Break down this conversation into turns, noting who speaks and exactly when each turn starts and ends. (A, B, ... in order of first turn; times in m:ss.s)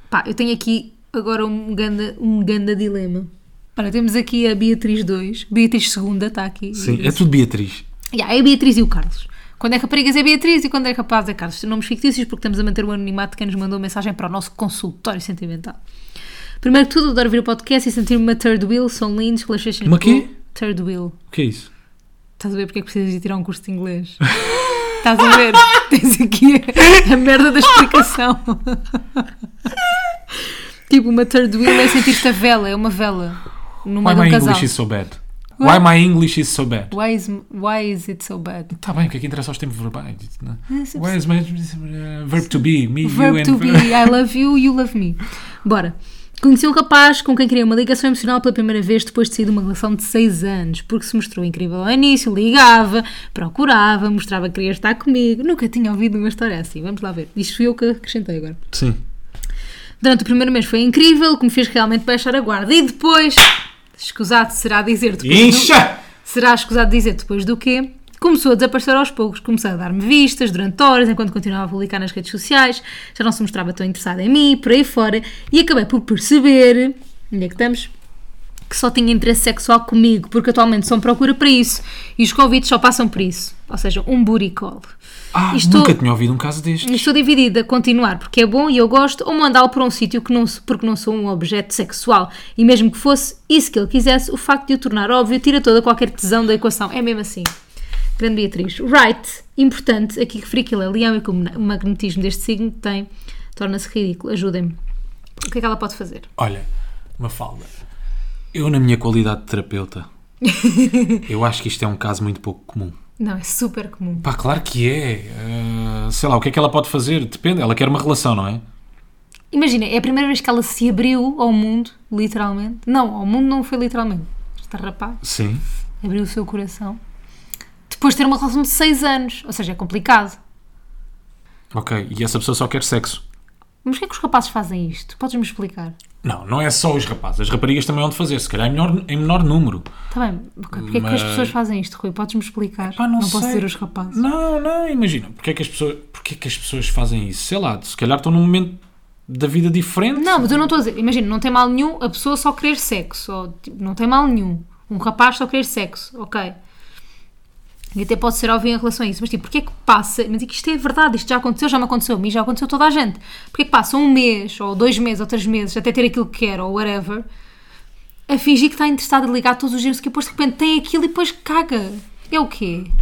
0:00.1-0:07.2 A
0:06.7-0:07.8 B
0:08.1-0:15.8 A
0:16.6-0:21.2 A
0:19.8-0:20.3 B
0:21.3-0:21.7 B
0:22.4-0:24.3 A
0:25.0-0:29.2 A
0:29.8-0:34.7 A
0:34.0-0:36.9 B
0:36.9-0:38.7 A
0:38.7-0:44.1 B
0:40.7-0:41.2 A
0:43.0-0:58.6 A
0:58.7-0:59.0 B
1:00.0-1:17.9 A
1:05.2-1:06.0 B
1:18.7-1:24.9 A
1:25.3-1:27.1 B
1:25.5-1:26.0 A
1:26.8-1:37.5 A
1:38.2-1:44.8 A
1:45.4-1:46.3 A
1:46.4-1:47.7 B
1:48.5-1:50.1 B
1:50.4-1:51.3 A
1:51.3-1:53.0 B
1:53.2-1:54.3 A
1:54.2-1:58.6 B
1:59.5-2:05.2 A
2:05.2-2:05.6 B
2:06.0-2:07.0 A
2:07.9-2:10.4 A
2:11.7-2:13.2 B
2:13.8-2:16.0 A
2:16.2-2:19.9 B
2:20.1-2:24.2 A
2:20.7-2:21.6 B
2:22.8-2:30.6 B
2:30.2-2:36.6 A
2:38.0-2:47.2 A
2:48.3-2:52.9 A